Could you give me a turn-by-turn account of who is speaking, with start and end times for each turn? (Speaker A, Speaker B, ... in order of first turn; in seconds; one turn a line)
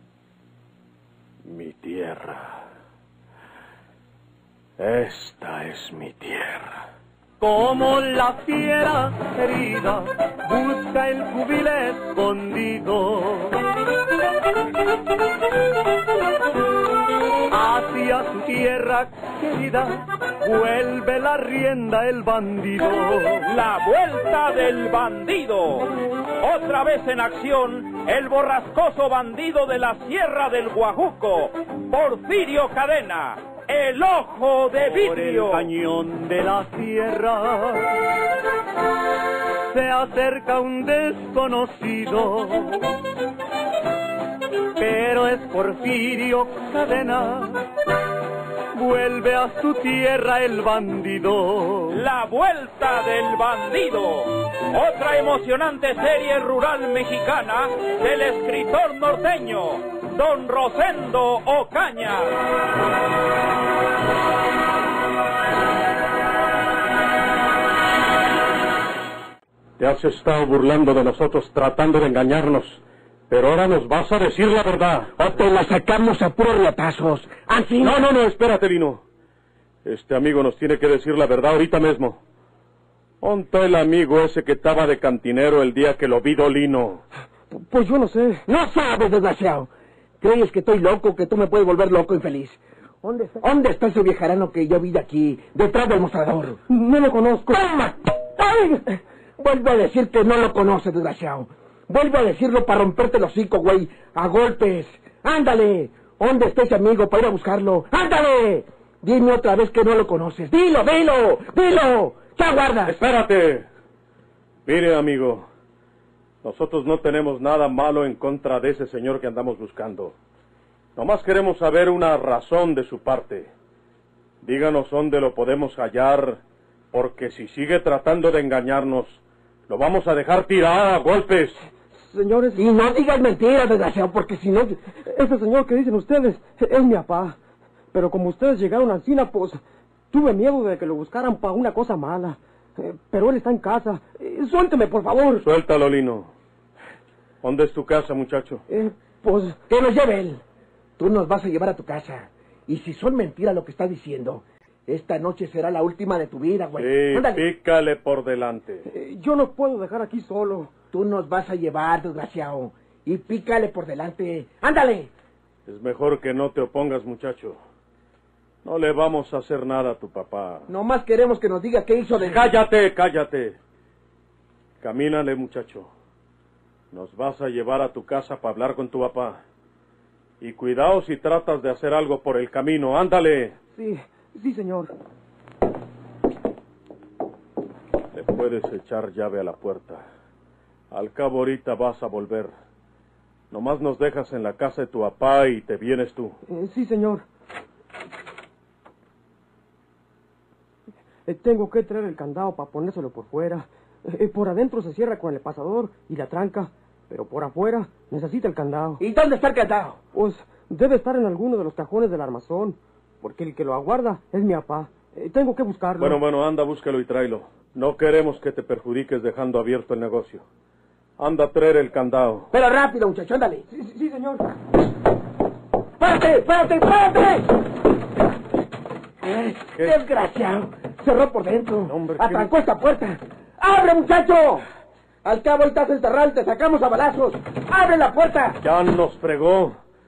Speaker A: 1.4-2.6
Speaker A: 4.8-6.8
Speaker B: 7.4-13.6
Speaker B: 17.5-23.5
Speaker C: 23.5-25.9
Speaker C: 26.4-35.7
Speaker B: 34.8-38.0
Speaker B: 39.7-42.9
Speaker B: 44.8-47.6
Speaker B: 48.7-52.0
Speaker C: 51.9-62.4
Speaker A: 69.8-75.2
Speaker D: 75.2-78.1
Speaker A: 77.8-79.0
Speaker A: 79.8-82.2
Speaker A: 83.2-87.0
Speaker E: 87.5-88.4
Speaker D: 88.5-89.7
Speaker D: 90.2-96.6
Speaker E: 96.7-97.9
Speaker D: 97.5-97.9
Speaker E: 98.4-98.8
Speaker D: 99.4-113.0
Speaker A: 112.8-113.7
Speaker A: 114.7-115.5
Speaker A: 116.4-120.2
Speaker A: 121.0-123.5
Speaker A: 124.4-126.4
Speaker A: 126.9-131.6
Speaker E: 131.9-132.6
Speaker D: 132.6-134.8
Speaker E: 135.0-137.4
Speaker E: 137.9-145.5
Speaker A: 145.4-146.3
Speaker A: 147.4-148.6
Speaker E: 148.7-149.6
Speaker D: 149.7-150.4
Speaker D: 151.0-157.4
Speaker A: 156.8-158.9
Speaker E: 158.8-160.7
Speaker D: 160.9-165.1
Speaker A: 165.7-167.6
Speaker A: 168.6-170.7
Speaker D: 170.7-172.6
Speaker A: 172.1-173.6
Speaker A: 174.8-175.9
Speaker A: 176.9-179.4
Speaker A: 180.4-183.6
Speaker E: 183.7-184.9
Speaker A: 188.1-190.0
Speaker A: 190.9-192.5
Speaker A: 193.5-196.4
Speaker E: 196.5-197.2
Speaker E: 201.2-209.0
Speaker D: 209.0-210.0
Speaker E: 210.1-216.2
Speaker A: 216.0-220.4
Speaker A: 221.2-222.5
Speaker D: 222.5-223.6
Speaker E: 223.7-224.4
Speaker D: 226.0-227.5
Speaker D: 229.2-234.7
Speaker A: 229.7-230.0
Speaker A: 231.9-232.5
Speaker D: 235.2-238.6
Speaker A: 238.6-239.8